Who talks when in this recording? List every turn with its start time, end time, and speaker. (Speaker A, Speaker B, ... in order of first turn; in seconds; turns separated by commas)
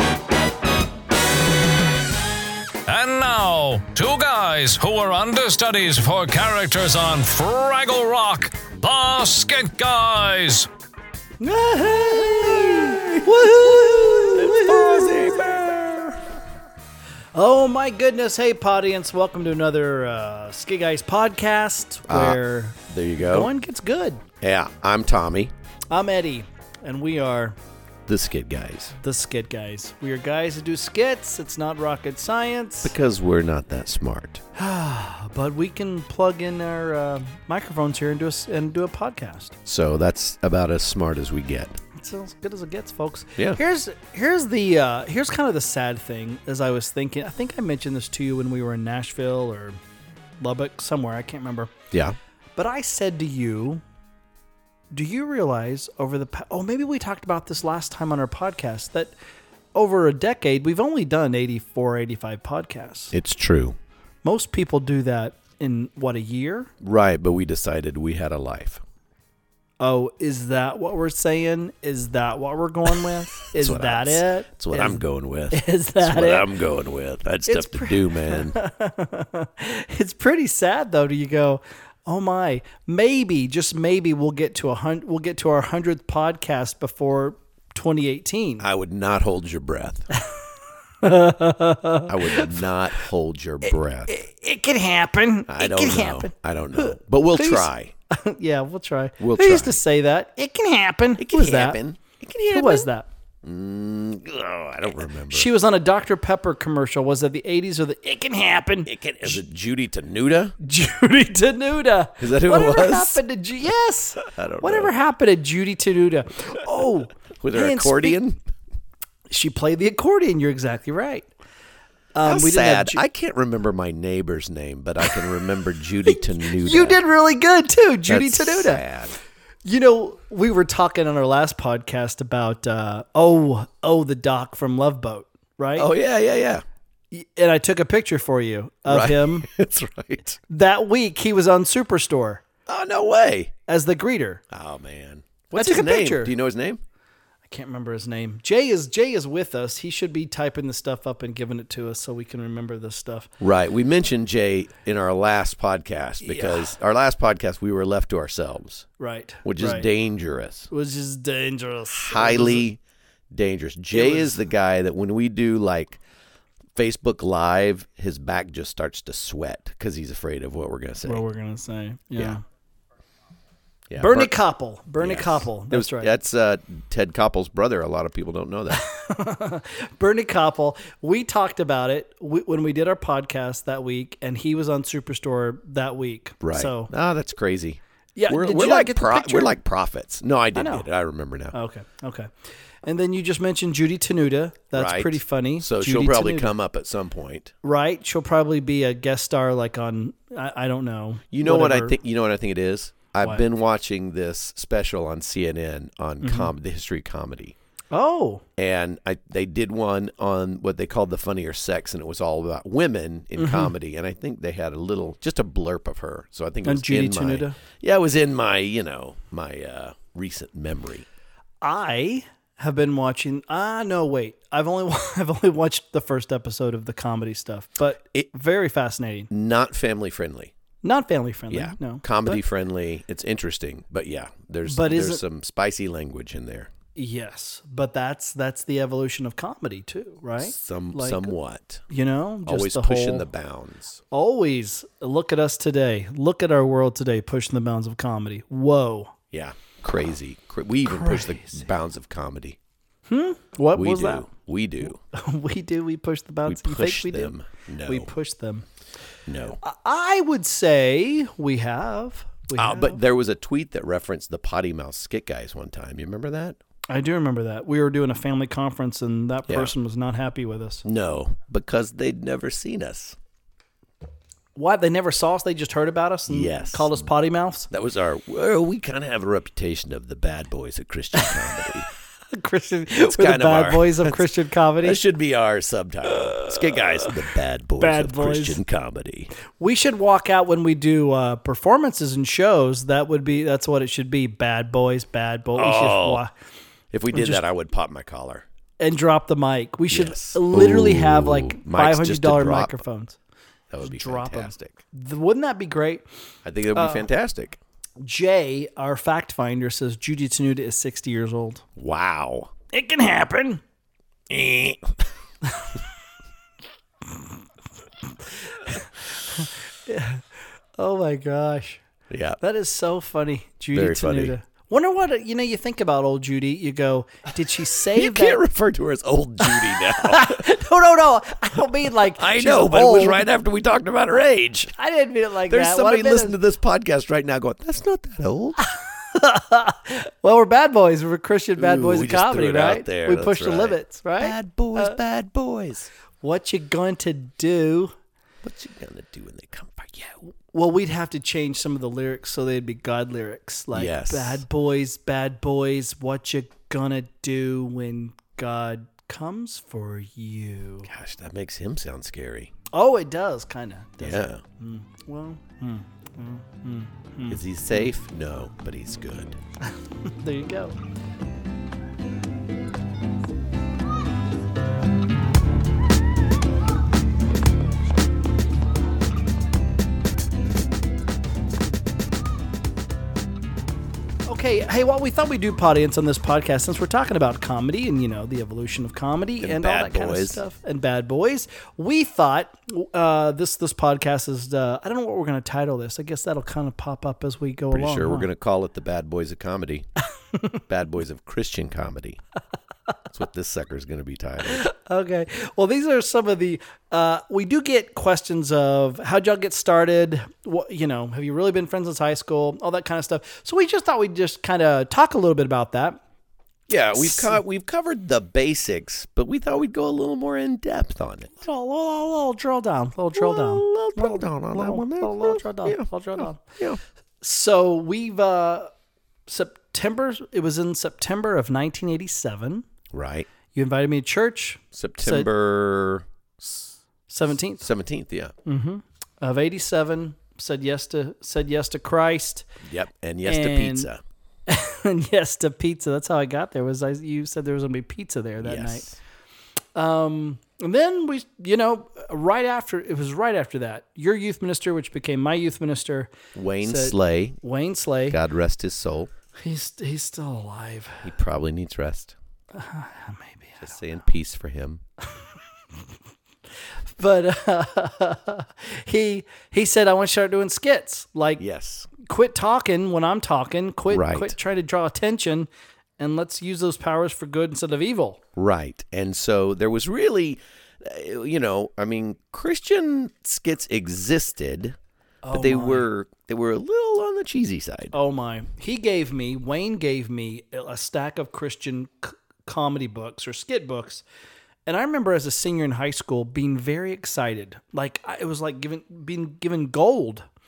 Speaker A: 2.9-10.7, Speaker B: 11.4-15.5, Speaker C: 11.8-16.3, Speaker B: 17.3-24.2, Speaker C: 22.1-23.5, Speaker C: 24.4-25.5, Speaker B: 25.9-27.6, Speaker C: 28.1-28.9, Speaker B: 29.0-32.9, Speaker C: 32.8-34.4, Speaker B: 34.5-39.6, Speaker C: 39.6-41.8, Speaker B: 41.9-49.8, Speaker B: 50.4-51.7, Speaker B: 52.5-53.8, Speaker B: 54.9-59.1, Speaker B: 59.7-63.1, Speaker C: 63.1-63.8, Speaker B: 64.2-66.7, Speaker C: 66.8-68.8, Speaker B: 69.8-76.5, Speaker C: 73.0-78.6, Speaker B: 77.5-88.6, Speaker C: 88.6-90.1, Speaker B: 91.0-92.6, Speaker C: 92.1-94.1, Speaker B: 94.1-101.8, Speaker C: 95.5-97.9, Speaker C: 99.2-99.8, Speaker C: 101.2-102.9, Speaker B: 102.5-103.1, Speaker C: 103.4-105.5, Speaker B: 105.3-109.4, Speaker C: 108.8-110.5, Speaker B: 110.6-118.2, Speaker C: 112.2-113.2, Speaker C: 114.2-114.9, Speaker C: 117.4-118.4, Speaker B: 119.3-121.3, Speaker B: 122.1-123.0, Speaker C: 122.2-127.0, Speaker B: 126.1-128.8, Speaker C: 128.1-129.2, Speaker B: 129.6-135.9, Speaker C: 135.8-136.6, Speaker B: 137.1-139.5, Speaker C: 138.9-140.4, Speaker B: 140.5-142.4, Speaker C: 142.7-143.5, Speaker B: 143.7-144.4, Speaker C: 144.5-146.8, Speaker B: 145.5-146.3, Speaker B: 147.4-153.3, Speaker C: 153.4-158.9, Speaker B: 156.2-156.7, Speaker B: 159.0-159.9, Speaker C: 159.4-160.7, Speaker B: 160.7-162.6, Speaker C: 161.9-162.8, Speaker C: 163.3-166.0, Speaker B: 163.9-164.4, Speaker C: 166.8-171.2, Speaker B: 171.1-172.4, Speaker C: 173.9-174.3, Speaker B: 174.0-176.1, Speaker C: 175.0-178.8, Speaker B: 178.7-186.9, Speaker C: 186.4-191.5, Speaker B: 188.2-189.5, Speaker B: 190.5-190.8, Speaker B: 191.5-192.3, Speaker B: 192.8-196.5, Speaker C: 194.7-197.5, Speaker B: 197.6-202.0, Speaker C: 201.3-207.6, Speaker B: 206.2-206.5, Speaker B: 207.9-208.4, Speaker C: 208.6-221.1, Speaker B: 213.4-213.7, Speaker B: 216.6-217.6, Speaker B: 221.6-229.3, Speaker C: 229.3-230.5, Speaker B: 230.8-232.4, Speaker C: 231.5-236.7, Speaker B: 234.7-235.2, Speaker B: 236.9-241.3, Speaker C: 240.4-241.8, Speaker B: 241.9-243.3, Speaker C: 242.4-244.0, Speaker B: 244.1-249.1, Speaker C: 249.3-252.6, Speaker B: 250.8-251.7, Speaker B: 253.1-254.3, Speaker C: 253.7-255.0, Speaker B: 255.1-258.6, Speaker C: 256.4-258.1, Speaker C: 259.3-259.6, Speaker B: 259.6-263.0, Speaker C: 262.6-266.6, Speaker B: 266.9-270.8, Speaker C: 269.5-269.7, Speaker C: 270.8-273.2, Speaker B: 274.6-277.7, Speaker C: 276.3-276.9, Speaker C: 277.7-281.9, Speaker B: 282.3-285.0, Speaker C: 283.0-284.2, Speaker C: 284.8-289.3, Speaker B: 286.1-287.1, Speaker B: 287.8-288.6, Speaker B: 289.6-296.3, Speaker C: 295.5-296.2, Speaker C: 296.9-298.4, Speaker B: 297.1-297.4, Speaker B: 298.8-303.2, Speaker C: 299.9-302.8, Speaker C: 303.7-304.8, Speaker B: 303.8-306.0, Speaker C: 306.4-307.6, Speaker B: 306.7-307.1, Speaker B: 308.0-311.6, Speaker C: 311.8-312.5, Speaker B: 312.7-313.6, Speaker C: 314.3-314.9, Speaker B: 315.4-315.8, Speaker B: 317.1-317.4, Speaker B: 318.1-320.2, Speaker B: 320.8-321.8, Speaker C: 322.1-322.4, Speaker B: 322.4-328.4, Speaker C: 323.7-324.3, Speaker C: 327.9-330.5, Speaker B: 329.4-333.3, Speaker C: 332.2-334.7, Speaker B: 334.7-336.4, Speaker C: 335.5-338.6, Speaker B: 338.6-345.0, Speaker C: 341.6-345.9, Speaker B: 346.2-347.9, Speaker C: 348.4-350.2, Speaker B: 350.5-360.9, Speaker C: 353.7-354.4, Speaker C: 360.9-362.5, Speaker B: 362.7-367.8, Speaker C: 364.0-364.4, Speaker C: 367.3-369.4, Speaker B: 370.0-370.8, Speaker B: 384.3-398.3, Speaker C: 389.4-390.4, Speaker C: 397.7-399.9, Speaker C: 400.7-402.2, Speaker C: 403.1-404.7, Speaker B: 404.4-416.0, Speaker C: 416.7-421.3, Speaker B: 416.9-417.4, Speaker B: 421.4-426.4, Speaker C: 423.1-426.8, Speaker B: 427.2-428.7, Speaker B: 429.3-432.6, Speaker C: 432.9-433.3, Speaker B: 433.5-435.3, Speaker C: 434.7-436.1, Speaker B: 437.1-437.6, Speaker C: 437.6-438.3, Speaker B: 438.4-442.5, Speaker C: 442.6-444.0, Speaker B: 443.2-443.9, Speaker B: 444.5-448.9, Speaker C: 448.4-449.0, Speaker B: 449.7-458.2, Speaker C: 456.3-457.4, Speaker C: 458.1-459.1, Speaker B: 459.4-461.1, Speaker C: 461.0-462.1, Speaker B: 462.5-463.7, Speaker C: 463.6-464.8, Speaker B: 466.9-471.4, Speaker C: 471.4-471.9, Speaker B: 471.9-475.5, Speaker C: 473.9-474.4, Speaker B: 476.0-478.2, Speaker C: 478.4-484.8, Speaker B: 485.2-485.9, Speaker C: 485.3-487.9, Speaker B: 487.9-494.0, Speaker B: 494.6-500.2